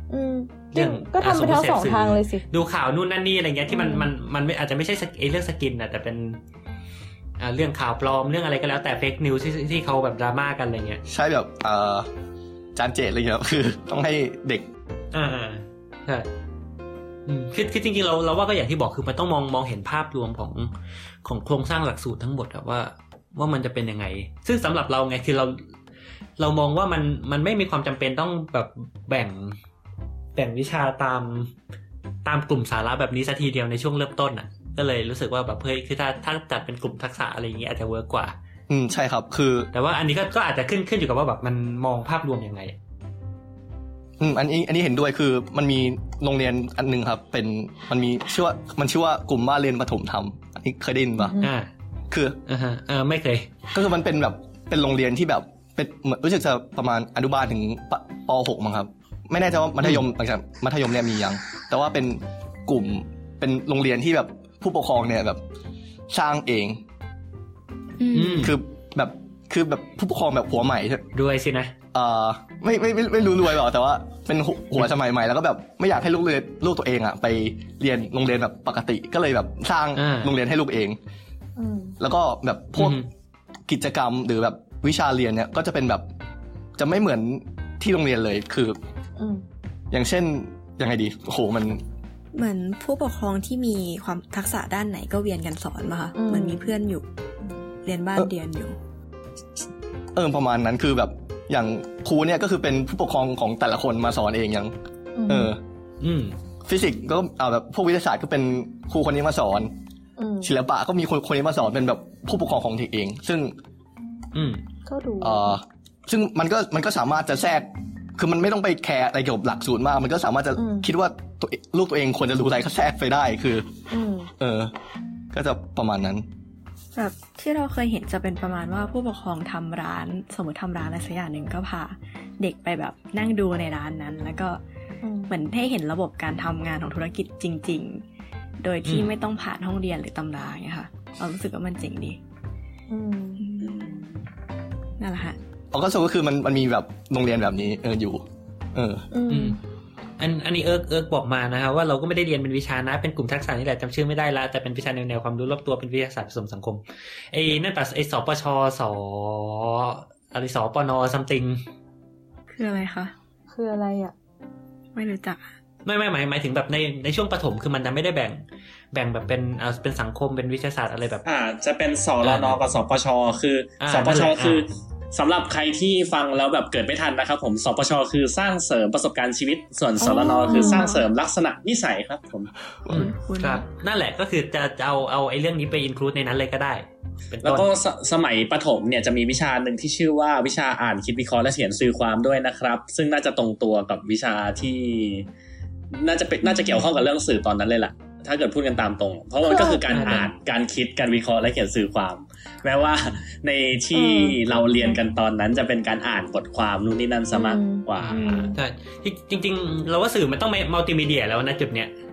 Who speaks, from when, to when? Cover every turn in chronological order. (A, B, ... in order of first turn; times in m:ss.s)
0:00.1-0:02.4 A
0:00.7-0:06.4 B
0:03.7-0:04.1 A
0:07.4-0:11.0 B
0:11.1-0:12.1 C
0:12.7-0:14.6 C
0:15.1-0:16.3 B
0:17.3-0:20.7 B
0:21.2-0:25.6 B
0:26.4-0:29.6 B
0:30.3-0:31.5 B
0:32.2-0:38.4 B
0:38.7-0:39.7 C
0:39.7-0:42.7 B
0:44.2-0:51.4 C
0:51.2-0:51.5 A
0:51.4-0:51.7 B
0:52.1-0:52.4 C
0:52.4-0:53.6 B
0:53.7-1:05.4 C
1:06.1-1:06.8 C
1:08.0-1:08.5 D
1:08.1-1:08.6 B
1:08.4-1:11.1 C
1:11.1-1:11.7 B
1:11.9-1:21.0 C
1:20.0-1:20.3 B
1:21.6-1:22.0 A
1:22.0-1:23.0 C
1:22.8-1:23.1 B
1:23.7-1:26.1 C
1:26.8-1:28.8 C
1:29.2-1:29.4 A
1:29.9-1:31.8 C
1:32.3-1:37.0 D
1:36.2-1:36.7 A
1:37.8-1:38.8 D
1:40.1-1:44.7 C
1:45.1-1:45.5 A
1:45.3-1:45.6 C
1:46.0-1:46.3 B
1:46.6-1:49.7 C
1:50.2-1:50.5 A
1:50.4-1:53.6 C
1:54.3-1:54.6 B
1:54.8-1:55.6 A
1:55.2-2:03.7 C
2:00.6-2:00.9 A
2:03.9-2:04.3 A
2:04.4-2:04.7 C
2:05.3-2:06.2 C
2:06.9-2:14.6 D
2:15.0-2:15.3 A
2:15.3-2:18.0 D
2:18.6-2:22.2 D
2:18.8-2:19.1 B
2:22.9-2:23.4 A
2:23.4-2:24.0 D
2:23.6-2:24.2 E
2:25.0-2:25.4 D
2:25.7-2:28.2 C
2:28.7-2:29.1 C
2:29.1-2:29.6 A
2:29.3-2:29.6 B
2:30.2-2:41.6 B
2:42.5-2:43.1 D
2:43.5-2:44.1 A
2:44.9-2:45.4 D
2:45.8-2:51.2 B
2:51.2-3:02.5 E
2:52.2-2:52.6 B
2:53.8-2:54.7 B
3:00.0-3:01.0 D
3:00.5-3:00.9 A
3:02.9-3:03.7 D
3:02.9-3:07.7 B
3:07.4-3:15.3 E
3:15.9-3:28.5 E
3:16.4-3:16.8 A
3:19.4-3:20.2 A
3:19.9-3:20.3 B
3:23.9-3:25.0 A
3:27.3-3:28.6 A
3:28.0-3:31.9 B